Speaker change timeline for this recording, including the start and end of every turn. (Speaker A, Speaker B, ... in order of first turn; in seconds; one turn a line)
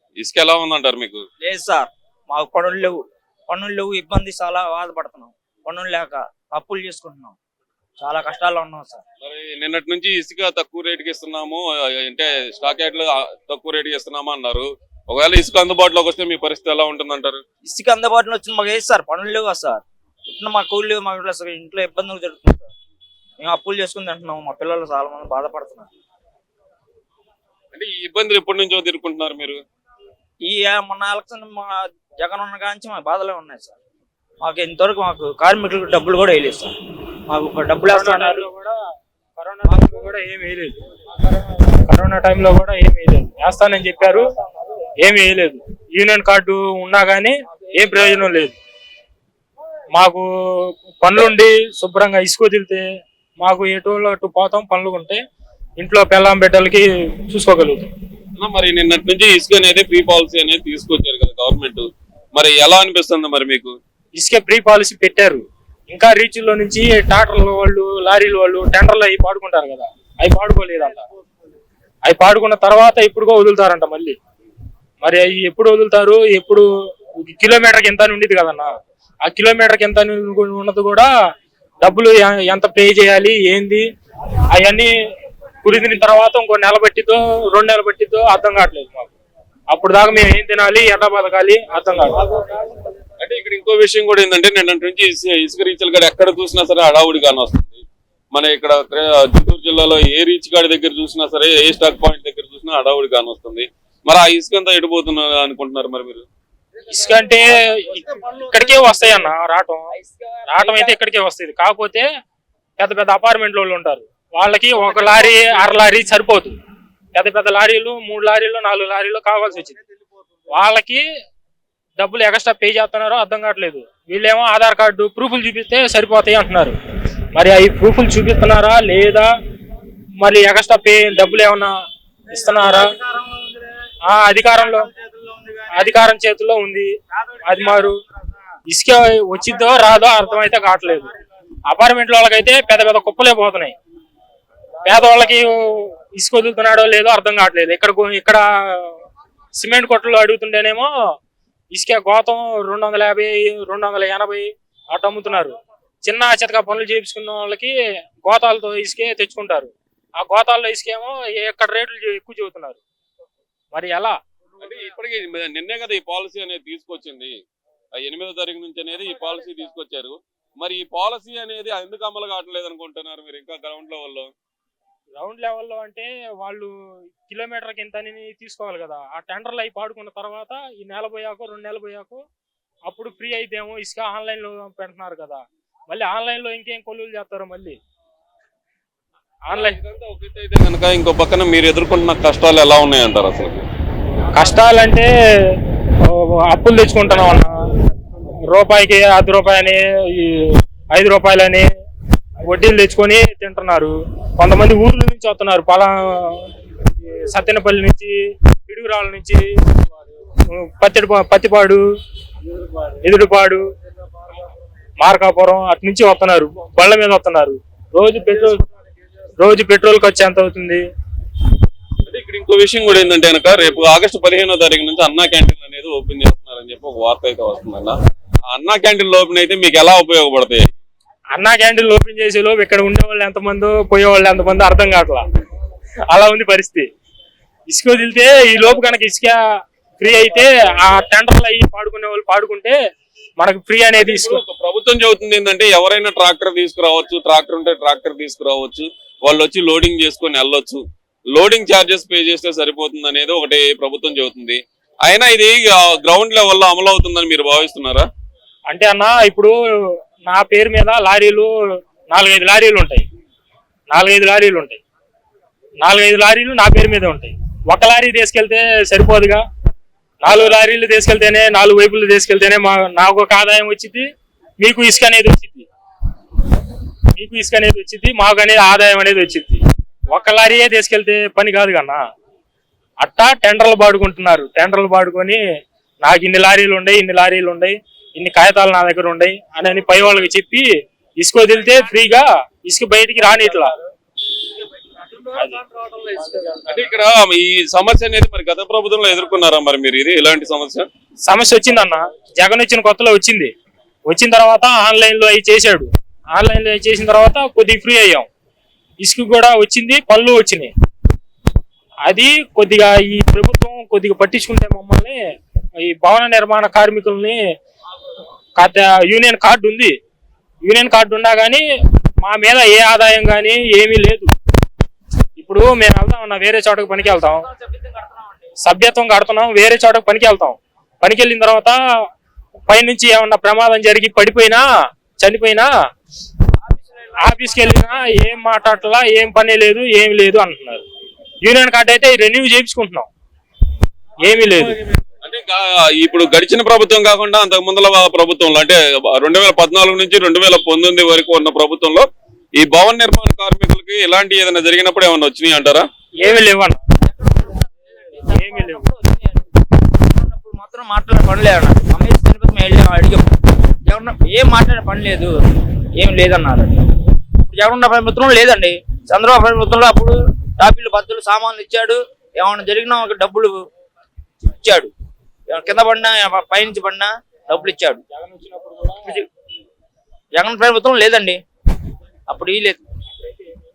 Speaker A: 0.2-1.2
Speaker B: 1.4-7.4
Speaker B: 8.0-9.0
Speaker A: 9.2-17.4
Speaker B: 17.6-22.7
Speaker B: 23.4-25.9
Speaker A: 27.7-29.6
Speaker B: 30.4-33.8
Speaker B: 34.4-36.7
Speaker B: 37.3-38.4
Speaker C: 37.9-38.8
Speaker C: 39.4-40.7
Speaker B: 39.7-40.0
Speaker C: 41.9-44.3
Speaker C: 45.0-48.6
Speaker C: 50.0-50.3
Speaker C: 51.0-52.8
Speaker C: 53.4-55.2
Speaker C: 55.8-57.9
Speaker A: 58.4-63.8
Speaker C: 64.2-71.0
Speaker C: 72.1-74.2
Speaker C: 75.0-76.7
Speaker C: 77.2-78.7
Speaker C: 79.2-81.1
Speaker C: 81.8-83.9
Speaker C: 84.5-84.9
Speaker C: 85.6-89.1
Speaker C: 89.7-92.3
Speaker A: 93.2-106.3
Speaker C: 106.9-109.9
Speaker B: 110.0-110.9
Speaker C: 110.5-112.1
Speaker C: 112.8-116.6
Speaker C: 117.1-119.8
Speaker C: 120.5-121.0
Speaker C: 122.0-126.8
Speaker C: 127.3-129.3
Speaker C: 130.2-131.7
Speaker C: 132.3-132.9
Speaker C: 134.1-134.9
Speaker C: 135.7-136.9
Speaker C: 137.4-138.0
Speaker C: 138.7-141.1
Speaker C: 141.7-143.8
Speaker C: 144.8-148.9
Speaker C: 149.6-150.9
Speaker C: 151.7-155.6
Speaker C: 156.1-157.7
Speaker C: 158.2-162.8
Speaker C: 163.7-164.2
Speaker A: 164.6-167.4
Speaker A: 167.9-174.3
Speaker C: 175.2-176.7
Speaker C: 177.2-182.2
Speaker C: 182.9-187.8
Speaker C: 189.5-189.8
Speaker A: 189.5-193.7
Speaker C: 194.3-195.1
Speaker C: 196.0-197.6
Speaker C: 198.5-201.7
Speaker C: 202.4-206.4
Speaker C: 207.1-208.2
Speaker C: 208.7-209.5
Speaker C: 210.5-211.8
Speaker C: 213.0-213.6
Speaker C: 215.0-218.6
Speaker C: 219.4-220.8
Speaker A: 222.1-230.7
Speaker C: 231.3-235.2
Speaker C: 236.1-236.9
Speaker C: 237.7-239.4
Speaker C: 240.0-242.8
Speaker C: 243.4-244.4
Speaker A: 244.0-250.8
Speaker A: 251.3-258.1
Speaker C: 258.7-259.6
Speaker C: 260.3-261.5
Speaker C: 262.1-263.1
Speaker C: 263.9-264.8
Speaker C: 265.8-269.4
Speaker C: 270.2-274.0
Speaker C: 274.6-275.7
Speaker C: 277.1-282.0
Speaker C: 283.0-285.4
Speaker C: 286.0-290.7
Speaker C: 291.2-293.7
Speaker C: 295.3-295.6
Speaker A: 296.6-300.9
Speaker C: 301.3-303.5
Speaker C: 304.1-308.3
Speaker C: 309.0-310.7
Speaker C: 312.1-315.2
Speaker C: 315.8-317.4
Speaker C: 318.6-319.9
Speaker C: 320.6-321.6
Speaker C: 322.2-324.3
Speaker C: 325.4-327.4
Speaker B: 327.5-328.4
Speaker C: 328.6-331.8
Speaker C: 332.7-334.6
Speaker C: 335.2-335.7
Speaker B: 336.6-338.1
Speaker C: 337.2-340.8
Speaker C: 341.4-343.1
Speaker C: 344.2-344.8
Speaker A: 345.2-355.9
Speaker C: 356.2-356.8
Speaker B: 357.1-363.3
Speaker C: 358.3-358.9
Speaker B: 363.9-365.3
Speaker B: 366.0-366.7
Speaker B: 367.4-373.6
Speaker B: 374.5-374.9
Speaker B: 375.5-378.0
Speaker C: 378.1-379.2
Speaker B: 380.4-381.4
Speaker B: 382.3-382.8